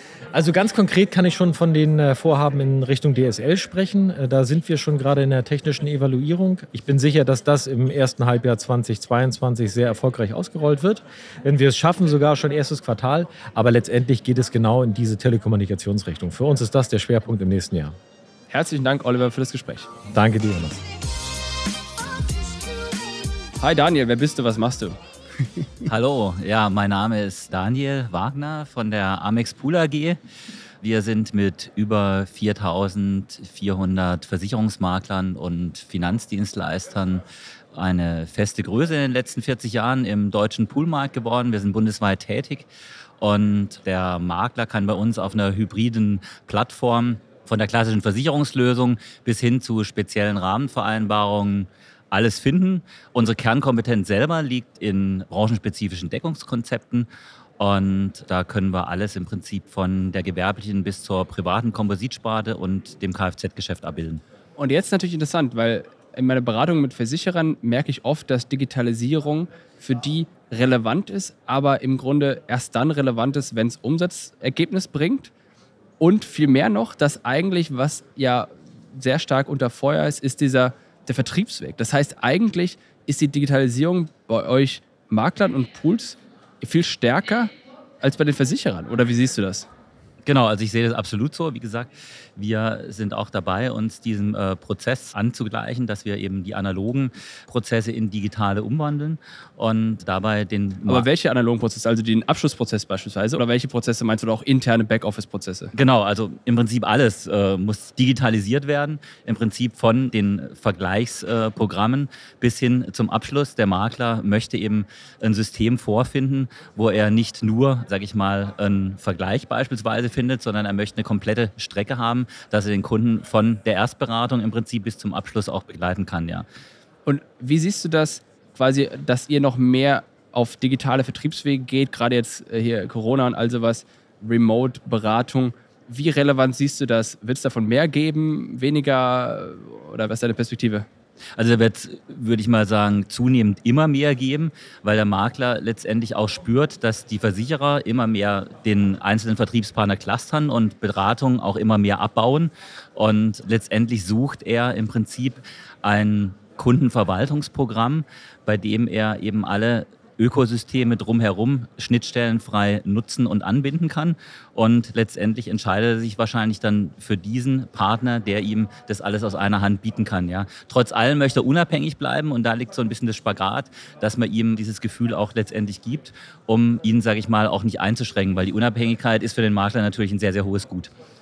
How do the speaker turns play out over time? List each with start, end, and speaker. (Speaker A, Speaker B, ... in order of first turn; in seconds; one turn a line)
Speaker A: 0.3-17.9
Speaker B: 18.5-19.9
Speaker A: 20.1-20.8
Speaker B: 23.6-25.0
Speaker C: 25.9-30.2
Speaker C: 30.8-42.7
Speaker C: 43.2-64.2
Speaker B: 64.5-75.3
Speaker B: 76.0-89.7
Speaker C: 90.2-101.1
Speaker B: 100.9-105.7
Speaker C: 105.7-126.4
Speaker B: 127.0-140.8
Speaker C: 141.3-180.9